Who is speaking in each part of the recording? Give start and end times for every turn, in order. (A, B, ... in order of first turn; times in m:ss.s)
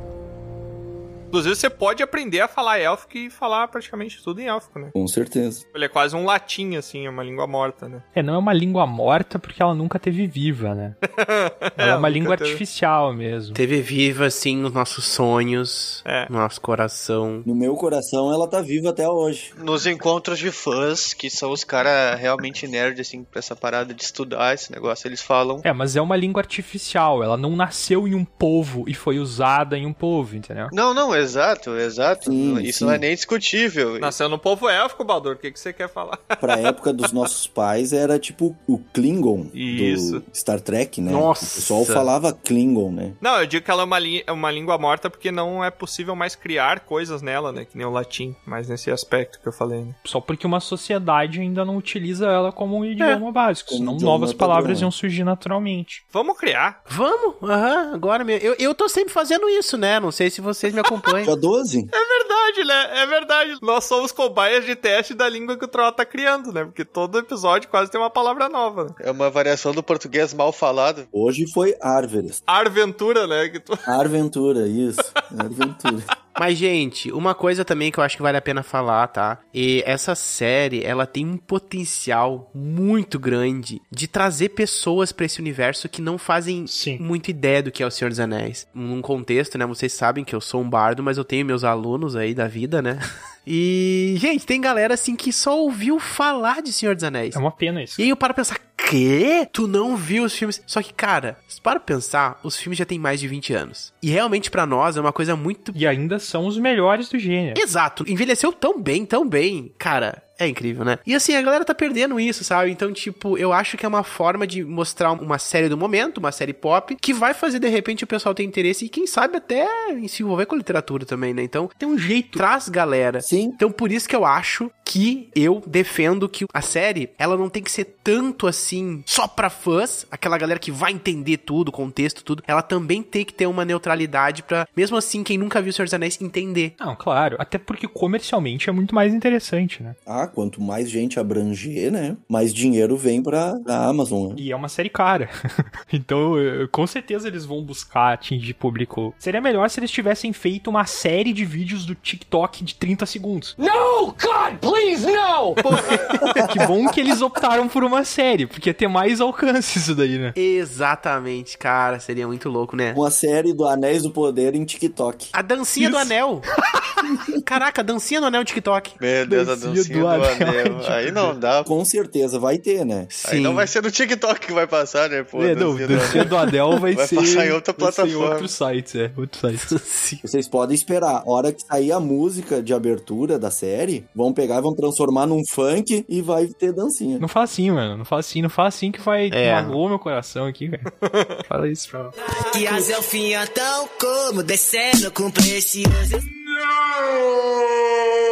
0:01.3-0:04.9 A
0:04.9-0:05.6 B
0:05.7-0:08.0 A
0:08.1-0:11.0 C
0:11.1-0:12.6 A
0:11.8-0:13.6 C
0:13.5-0:17.4 D
0:16.0-0:16.3 A
0:17.4-0:19.5 B
0:19.6-0:25.6 E
0:25.6-0:30.7 C
0:30.7-0:34.1 E
0:32.2-0:33.0 B
0:34.0-0:36.7 A
0:36.4-0:43.2 B
0:39.5-0:40.2 A
0:41.0-0:42.1 D
0:43.2-0:50.0 A
0:50.0-0:56.0 C
0:53.7-0:54.9 B
0:56.1-0:56.8 A
0:56.9-1:01.3 D
1:01.2-1:01.9 B
1:01.9-1:09.0 A
1:09.0-1:11.1 E
1:11.1-1:12.4 B
1:12.5-1:13.8 A
1:13.8-1:16.1 B
1:16.4-1:37.4 D
1:26.7-1:27.0 C
1:37.3-1:38.0 C
1:38.0-1:45.8 D
1:45.7-1:47.6 C
1:47.5-2:01.8 D
2:01.8-2:02.4 C
2:02.3-2:16.7 D
2:03.2-2:03.6 B
2:16.8-2:20.0 C
2:20.0-2:24.4 B
2:24.3-2:25.3 C
2:25.9-2:33.5 C
2:33.6-2:36.2 F
2:36.4-2:40.3 C
2:40.4-2:43.0 D
2:42.9-2:45.3 B
2:45.3-2:46.4 D
2:47.4-2:49.0 D
2:49.0-2:51.7 E
2:49.2-2:51.3 C
2:51.6-2:53.1 B
2:53.1-2:53.7 D
2:53.2-2:56.3 E
2:55.3-2:59.8 C
2:56.9-2:58.5 E
2:59.6-3:00.2 D
3:00.2-3:07.2 B
3:07.2-3:10.9 C
3:09.3-3:09.8 D
3:11.0-3:11.4 A
3:11.5-3:12.1 C
3:12.5-3:16.2 G